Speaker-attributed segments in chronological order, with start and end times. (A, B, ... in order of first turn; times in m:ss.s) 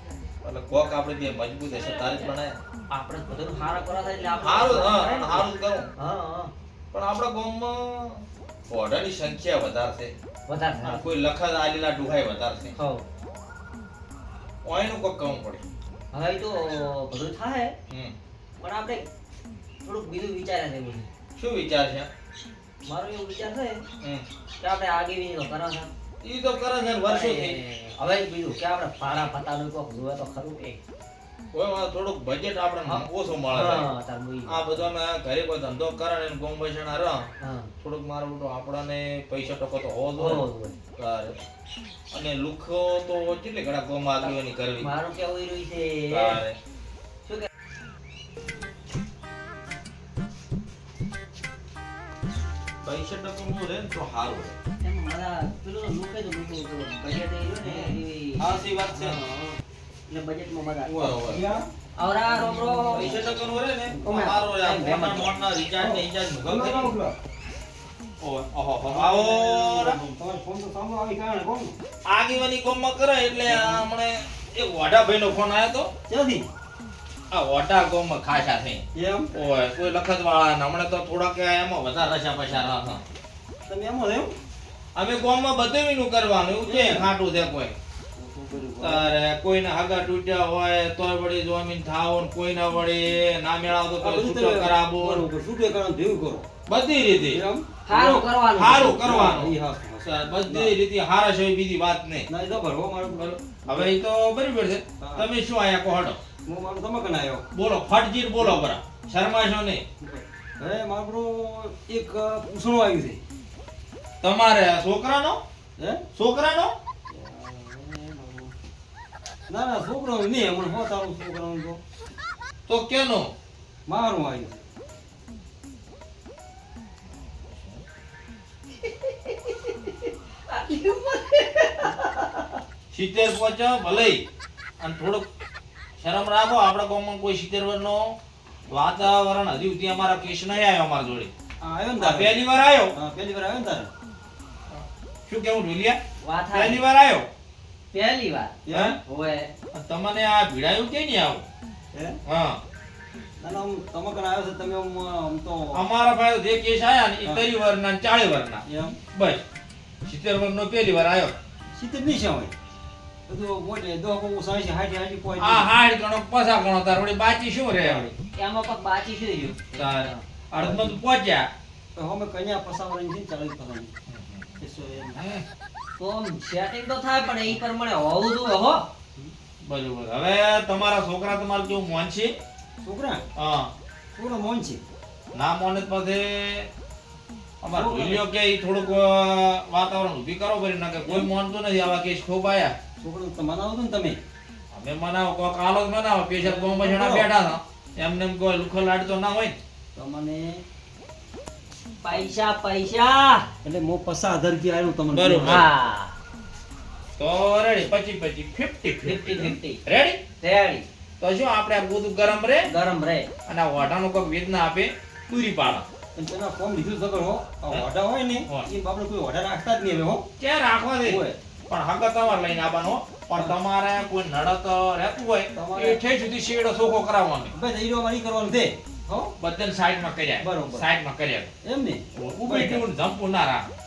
0:00.4-0:02.6 A
0:01.8-0:02.3 B
0:02.9-0:06.5 B
0:04.4-0:05.9 A
0:06.9-0:10.1 A
0:10.5-0:11.0 B
0:10.8-0:12.7 A
0:12.8-0:13.0 B
0:14.6-0:15.6 A
0:16.1-0:17.7 B
0:18.6-0:19.1 B
0:19.8-0:21.1 B
0:21.4-0:22.1 A
0:22.8-0:23.8 B
0:24.6-0:25.9 B
0:26.2-0:27.6 A
0:27.0-0:30.8 B
0:31.5-0:33.9 A
0:32.8-0:34.9 B
0:34.5-0:37.3 A
0:37.4-0:37.7 B
0:37.8-0:40.4 A
0:40.2-0:40.8 B
0:41.0-0:41.4 A
0:42.1-0:44.9 A
0:44.2-0:46.4 B
0:46.1-0:46.6 A
0:52.8-0:54.5 A
0:54.8-0:59.2 B
0:57.6-0:59.2 A
0:59.0-0:59.6 C
1:00.1-1:01.0 B
1:00.8-1:01.7 C
1:01.0-1:01.5 A
1:01.9-1:03.2 B
1:02.3-1:03.3 C
1:02.9-1:07.0 A
1:04.0-1:05.4 B
1:05.8-1:07.2 C
1:08.2-1:10.0 A
1:08.8-1:11.8 C
1:12.0-1:15.9 A
1:13.5-1:13.9 C
1:16.1-1:16.5 C
1:17.3-1:23.0 A
1:18.9-1:19.3 C
1:23.6-1:24.4 C
1:24.9-1:27.8 A
1:26.6-1:27.1 C
1:28.2-1:29.1 C
1:28.8-1:35.2 A
1:34.0-1:36.5 C
1:36.6-1:37.4 A
1:37.3-1:38.3 C
1:37.8-1:39.2 B
1:38.5-1:42.3 A
1:39.0-1:40.8 C
1:42.3-1:43.9 C
1:43.2-1:46.2 A
1:45.0-1:45.3 C
1:46.4-1:47.5 C
1:47.5-1:49.8 A
1:48.4-1:48.7 C
1:50.0-1:53.2 C
1:54.2-1:55.4 A
1:55.8-1:56.0 C
1:56.1-1:56.8 A
1:57.1-1:58.5 C
1:59.5-2:01.8 C
2:02.7-2:03.3 A
2:03.9-2:04.6 C
2:07.4-2:07.8 A
2:08.8-2:12.6 B
2:12.9-2:14.2 A
2:14.8-2:15.2 A
2:16.0-2:18.2 A
2:18.7-2:21.3 A
2:21.6-2:22.4 C
2:22.0-2:22.9 A
2:22.9-2:23.9 C
2:24.7-2:26.0 A
2:26.2-2:26.8 B
2:26.5-2:27.3 A
2:27.9-2:29.5 B
2:28.6-2:29.0 C
2:28.7-2:29.0 A
2:29.7-2:31.4 A
2:31.9-2:32.2 C
2:32.2-2:32.6 A
2:33.4-2:35.8 C
2:35.7-2:39.4 A
2:38.7-2:39.0 C
2:40.0-2:41.3 A
2:41.7-2:42.5 C
2:43.3-2:45.7 C
2:45.4-2:48.1 A
2:47.8-2:48.1 C
2:48.1-2:50.2 B
2:49.7-2:51.5 A
2:50.6-2:51.0 C
2:52.0-2:53.9 C
2:54.1-2:54.6 A
2:54.6-2:55.2 C
2:55.1-2:55.4 A
2:56.0-2:58.8 B
2:59.6-3:02.3 A
3:02.8-3:03.2 C
3:03.4-3:03.7 A
3:04.1-3:04.8 C
3:05.3-3:06.7 A
3:07.6-3:12.7 A
3:07.8-3:08.1 C
3:11.0-3:11.3 C
3:13.0-3:14.2 C
3:14.7-3:19.6 A
3:16.4-3:17.3 C
3:19.9-3:20.6 C
3:22.0-3:23.5 B
3:23.6-3:25.6 C
3:25.1-3:25.7 A
3:25.4-3:26.2 B
3:27.2-3:30.2 A
3:29.0-3:29.8 B
3:30.4-3:30.8 B
3:31.2-3:32.7 A
3:32.6-3:33.3 B
3:33.4-3:35.9 A
3:36.2-3:40.3 C
3:40.4-3:47.5 A
3:41.0-3:41.4 C
3:45.5-3:46.0 C
3:47.5-3:49.3 C
3:49.4-3:51.5 A
3:50.4-3:50.8 C
3:51.6-3:52.8 C
3:52.1-3:53.7 A